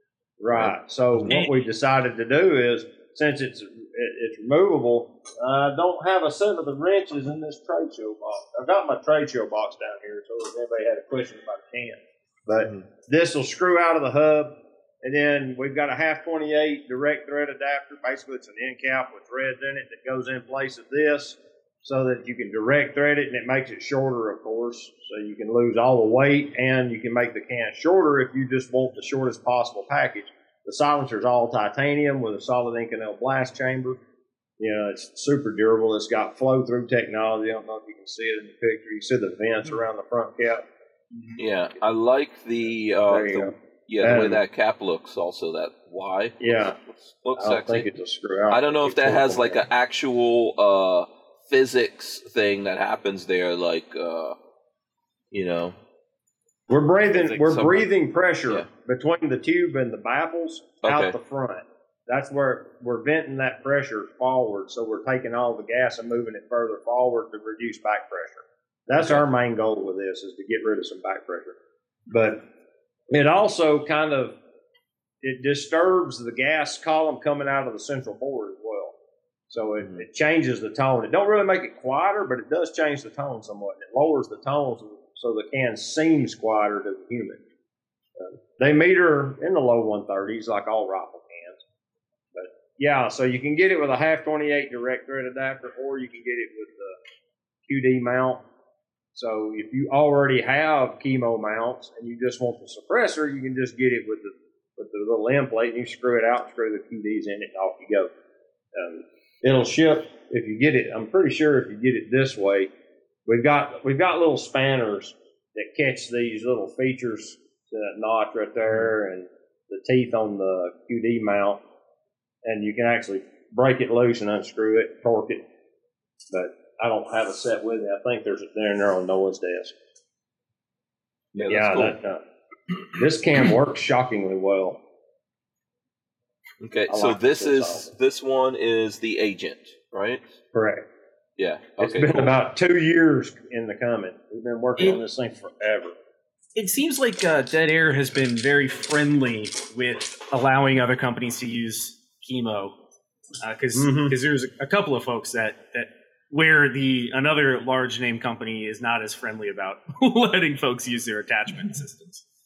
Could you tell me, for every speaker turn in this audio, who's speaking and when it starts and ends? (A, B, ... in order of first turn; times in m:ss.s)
0:00.4-0:34.0 A
0:34.6-0:40.6 A
0:41.4-0:47.9 B
0:43.1-0:44.4 A
0:46.4-0:46.8 A
0:47.4-0:49.6 A
0:48.5-0:54.4 B
0:55.3-0:55.8 B
0:56.7-1:11.6 A
0:57.2-0:57.8 B
1:00.8-1:01.2 B
1:09.0-1:09.2 B
1:12.1-1:12.4 A
1:13.1-1:14.4 A
1:15.2-1:18.9 A
1:19.5-1:27.4 A
1:28.2-1:31.6 A
1:32.3-1:37.0 A
1:37.7-1:38.4 A
1:39.1-1:48.1 A
1:48.7-1:52.7 A
1:53.2-2:01.6 A
2:02.4-2:05.4 A
2:06.3-2:09.8 A
2:11.3-2:12.0 B
2:11.4-2:12.2 A
2:12.9-2:14.8 A
2:16.6-2:20.2 B
2:16.9-2:17.9 A
2:20.5-2:20.8 A
2:21.4-2:22.3 B
2:21.8-2:25.9 A
2:26.6-2:32.8 C
2:33.4-2:42.2 C
2:33.7-2:34.2 A